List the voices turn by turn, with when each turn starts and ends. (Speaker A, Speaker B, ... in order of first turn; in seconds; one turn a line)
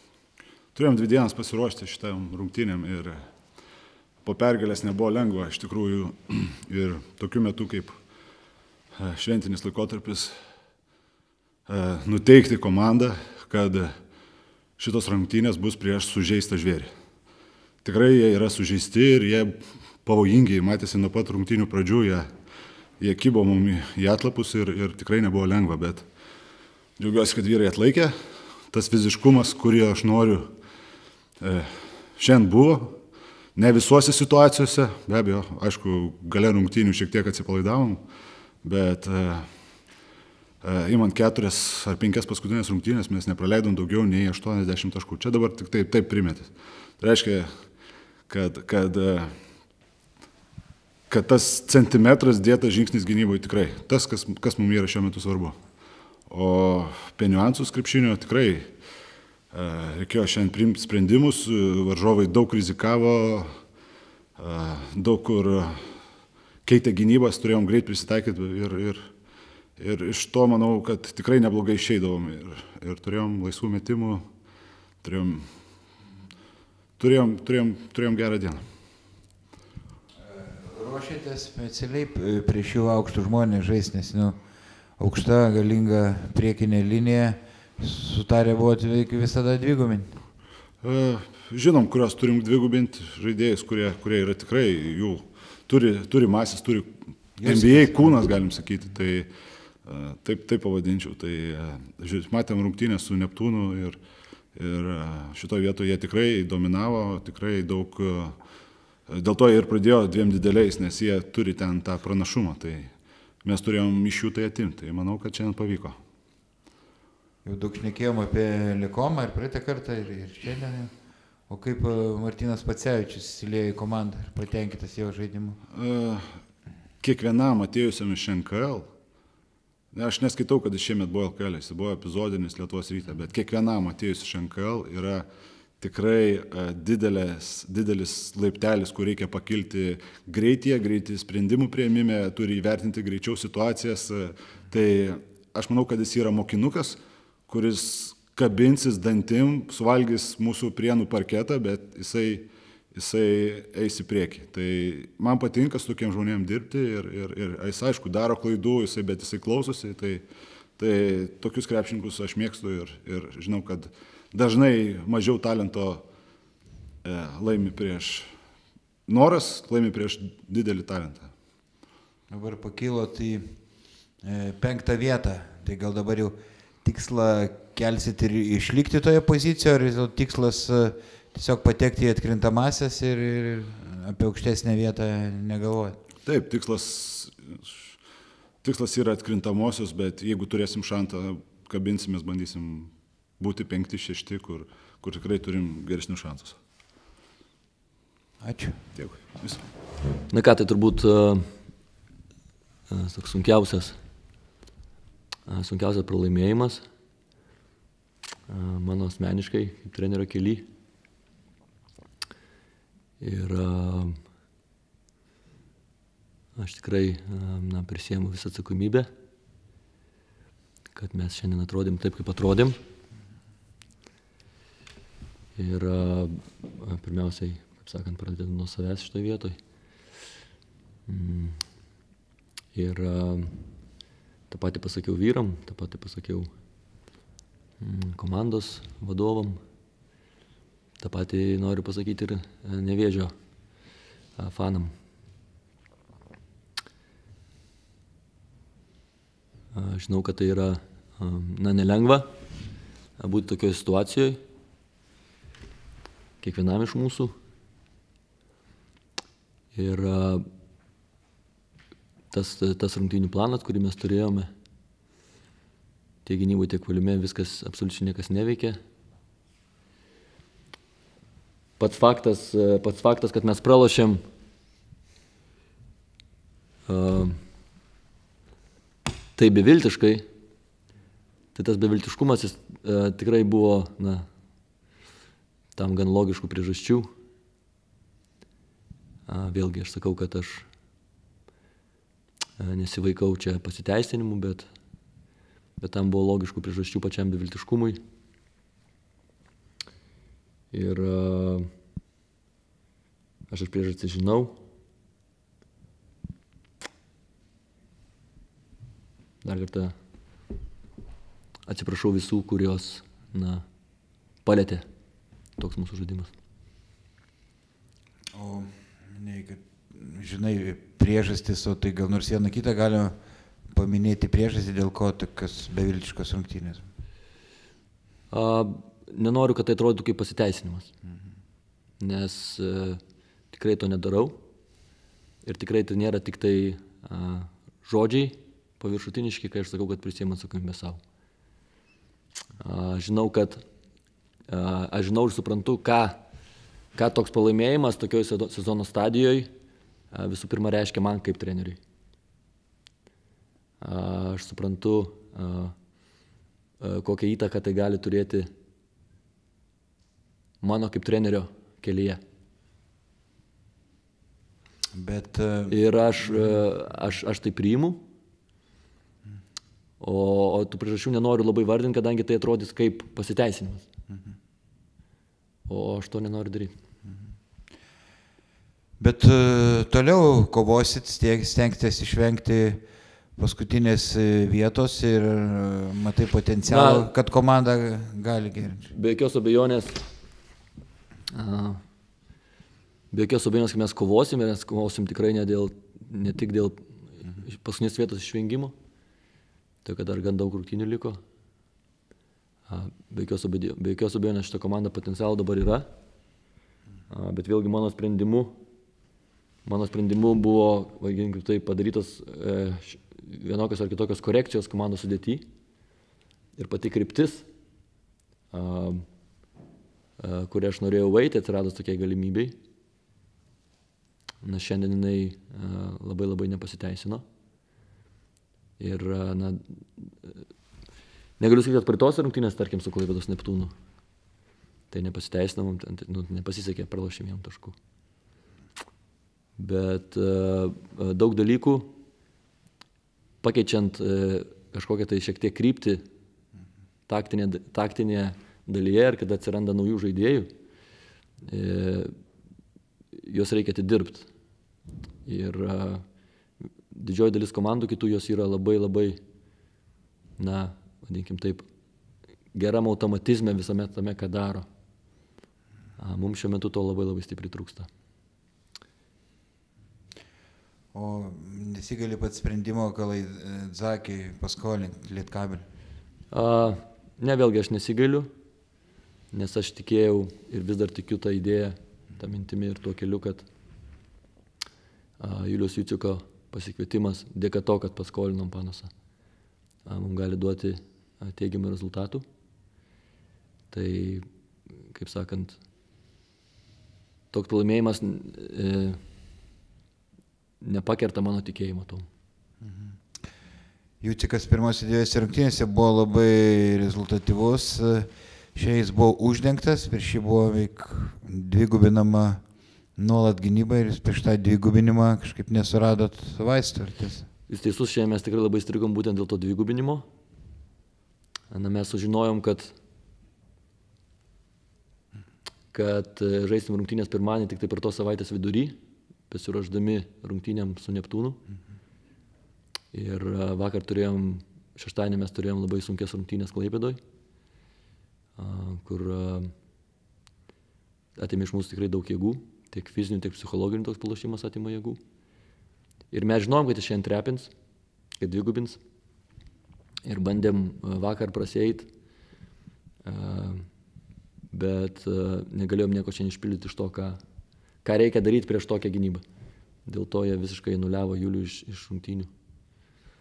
Speaker A: 0.8-3.2
Speaker A: 4.2-8.0
Speaker A: 9.0-10.4
Speaker A: 11.7-13.9
Speaker A: 14.8-16.9
Speaker A: 17.8-22.3
Speaker A: 23.0-26.1
Speaker A: 27.0-28.1
Speaker A: 28.7-30.5
Speaker A: 31.4-33.0
Speaker A: 33.6-38.0
Speaker A: 38.6-39.5
Speaker A: 40.6-47.5
Speaker A: 48.3-49.3
Speaker A: 51.1-55.6
Speaker A: 56.3-58.7
Speaker A: 59.5-63.5
Speaker A: 64.4-65.8
Speaker A: 66.7-69.0
Speaker A: 69.8-74.2
Speaker A: 75.0-75.5
Speaker A: 77.0-78.7
Speaker B: 80.2-84.4
Speaker B: 85.0-90.2
Speaker A: 90.8-99.3
Speaker B: 97.4-98.1
Speaker A: 99.9-104.0
Speaker A: 104.5-108.4
Speaker A: 109.1-112.9
Speaker A: 113.4-116.0
Speaker B: 117.4-120.9
Speaker B: 121.5-125.6
Speaker A: 125.7-126.3
Speaker A: 127.0-128.9
Speaker A: 129.9-135.3
Speaker A: 135.8-160.2
Speaker A: 160.8-166.1
Speaker A: 167.0-168.3
Speaker A: 169.1-171.3
Speaker B: 172.3-173.6
Speaker B: 174.2-186.0
Speaker A: 186.2-188.0
Speaker A: 188.6-196.6
Speaker B: 198.4-198.8
Speaker A: 199.0-199.6
Speaker C: 200.3-201.5
Speaker C: 202.9-204.0
Speaker C: 205.5-206.9
Speaker C: 208.5-210.7
Speaker C: 213.2-214.2
Speaker C: 216.6-219.1
Speaker C: 220.9-222.8
Speaker C: 225.6-229.6
Speaker C: 231.1-231.6
Speaker C: 232.7-233.6
Speaker C: 234.5-236.5
Speaker C: 237.8-239.6
Speaker C: 241.0-243.3
Speaker C: 244.4-244.9
Speaker C: 249.7-252.3
Speaker C: 253.2-254.4
Speaker C: 256.4-257.3
Speaker C: 259.7-260.4
Speaker C: 262.3-264.5
Speaker C: 266.2-268.8
Speaker C: 271.8-274.2
Speaker C: 276.9-277.4
Speaker C: 279.4-280.3
Speaker C: 281.5-284.3
Speaker C: 285.8-287.1
Speaker C: 289.3-290.7
Speaker C: 292.6-294.7
Speaker C: 295.8-298.0
Speaker C: 300.7-301.7
Speaker C: 303.5-304.6
Speaker C: 309.4-309.9
Speaker C: 311.7-313.6
Speaker C: 314.4-314.9
Speaker C: 315.6-316.3
Speaker B: 318.3-323.2
Speaker B: 323.7-326.9
Speaker C: 328.3-330.9
Speaker C: 332.0-333.0
Speaker C: 333.5-334.4
Speaker C: 335.4-341.0
Speaker C: 342.6-343.6
Speaker C: 344.5-346.2
Speaker C: 346.9-349.5
Speaker C: 350.1-351.8
Speaker C: 353.8-355.7
Speaker C: 356.8-358.5
Speaker C: 360.6-362.2
Speaker B: 364.9-366.7
Speaker C: 365.7-368.0
Speaker C: 370.0-373.9
Speaker C: 375.7-376.7
Speaker B: 379.0-382.8
Speaker B: 383.4-388.9
Speaker C: 386.7-387.1
Speaker C: 388.9-390.0
Speaker C: 391.3-391.8
Speaker C: 393.1-398.8
Speaker C: 399.8-401.2
Speaker C: 402.7-405.9
Speaker C: 407.1-408.6
Speaker C: 409.6-415.4
Speaker C: 416.6-417.5
Speaker C: 418.5-419.0
Speaker C: 420.2-422.6
Speaker C: 424.4-427.2
Speaker C: 428.8-430.4
Speaker C: 431.4-433.7
Speaker C: 434.9-437.8
Speaker C: 439.6-441.9
Speaker C: 443.4-446.1
Speaker C: 447.1-450.5
Speaker C: 451.4-452.1
Speaker C: 453.1-454.3
Speaker C: 455.3-456.0
Speaker C: 456.9-459.2
Speaker C: 460.4-461.7
Speaker C: 462.5-464.7
Speaker C: 466.0-467.9
Speaker B: 470.9-475.6
Speaker C: 476.3-478.3
Speaker C: 479.3-483.5
Speaker C: 485.2-488.9
Speaker C: 489.9-492.2
Speaker C: 493.7-494.2
Speaker C: 494.9-495.6
Speaker C: 497.3-499.0
Speaker C: 500.6-502.1
Speaker B: 502.6-502.9
Speaker B: 504.0-512.4
Speaker B: 513.0-517.3
Speaker C: 517.5-520.0
Speaker C: 521.5-522.8
Speaker C: 525.7-528.8
Speaker C: 529.3-531.4
Speaker C: 532.9-537.0
Speaker C: 538.4-539.5
Speaker C: 541.2-545.0
Speaker C: 546.1-547.5
Speaker C: 548.2-548.8
Speaker C: 550.0-551.9
Speaker C: 553.0-553.7
Speaker C: 554.5-557.2
Speaker C: 557.8-559.2
Speaker C: 559.9-562.3